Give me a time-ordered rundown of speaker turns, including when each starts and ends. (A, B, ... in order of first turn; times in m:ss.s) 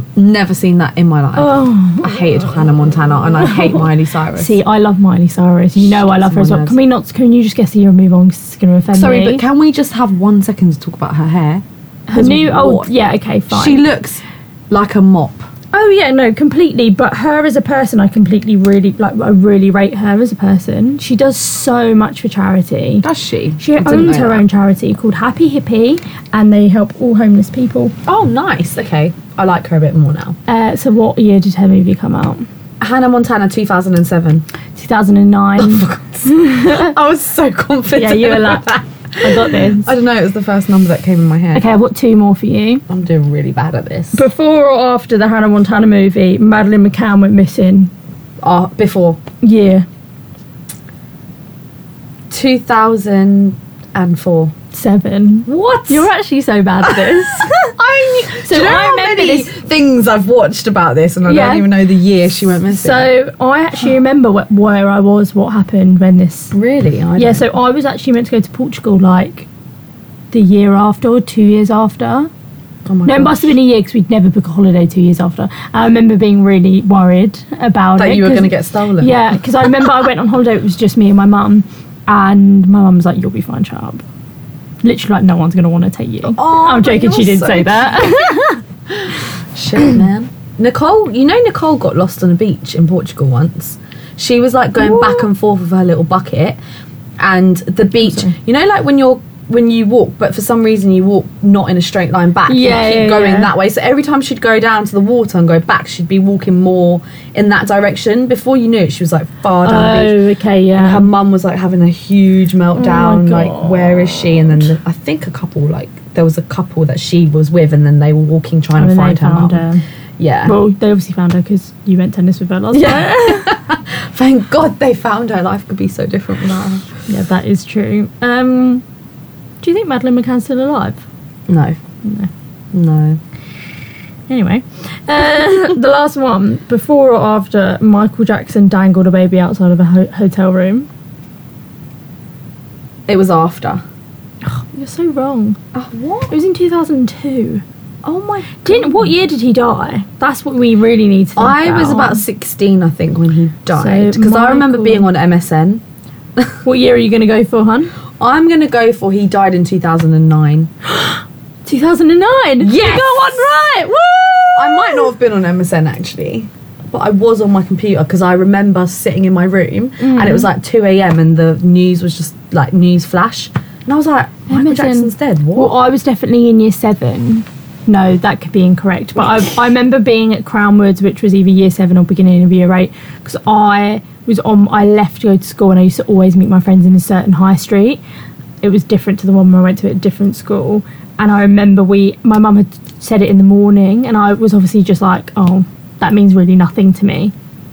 0:00.2-0:04.6 A
0:01.4-0:02.4 B
0:03.3-0:09.4 B
0:05.8-0:06.8 A
0:08.9-0:12.9 A
0:12.1-0:13.8 B
0:13.5-0:15.5 A
0:15.7-0:23.0 B
0:23.0-0:24.4 A
0:23.6-0:27.9 B
0:28.1-0:30.4 A
0:30.5-0:32.5 B
0:32.8-0:34.4 A
0:34.8-0:36.9 B
0:35.6-0:41.7 A
0:37.9-0:38.7 B
0:39.2-0:39.9 B
0:41.5-0:42.8 B
0:42.9-0:44.2 A
0:44.1-0:47.9 B
0:48.4-0:49.2 A
0:49.4-0:49.9 B
0:52.3-0:54.5 A
0:54.7-0:57.8 B
0:55.5-0:56.1 A
0:56.9-1:03.1 A
0:58.4-0:59.5 B
1:01.3-1:01.7 B
1:02.7-1:06.5 B
1:06.5-1:07.5 A
1:07.2-1:09.5 B
1:10.3-1:12.3 B
1:12.9-1:13.5 A
1:13.0-1:24.0 B
1:18.0-1:19.2 A
1:24.8-1:28.6 B
1:26.3-1:28.3 A
1:28.9-1:36.6 A
1:34.8-1:35.3 B
1:37.2-1:50.2 A
1:42.5-1:43.5 B
1:49.6-1:51.1 B
1:50.8-1:59.6 A
1:52.8-1:54.7 B
1:58.8-1:59.8 B
2:00.2-2:00.6 A
2:00.5-2:03.5 B
2:02.7-2:06.9 A
2:07.1-2:08.8 B
2:09.6-2:11.0 B
2:11.5-2:11.8 A
2:12.0-2:12.3 B
2:12.7-2:13.2 A
2:14.3-2:20.9 B
2:23.1-2:23.8 A
2:24.4-2:25.6 B
2:25.7-2:26.3 A
2:26.3-2:27.6 B
2:28.0-2:29.1 A
2:28.6-2:32.2 B
2:31.4-2:35.8 A
2:33.7-2:35.1 B
2:36.6-2:37.9 B
2:38.2-2:40.7 A
2:40.9-2:45.1 B
2:42.6-2:43.5 A
2:44.6-2:55.7 A
2:50.0-2:50.5 B
2:54.5-3:08.0 B
3:08.6-3:17.3 B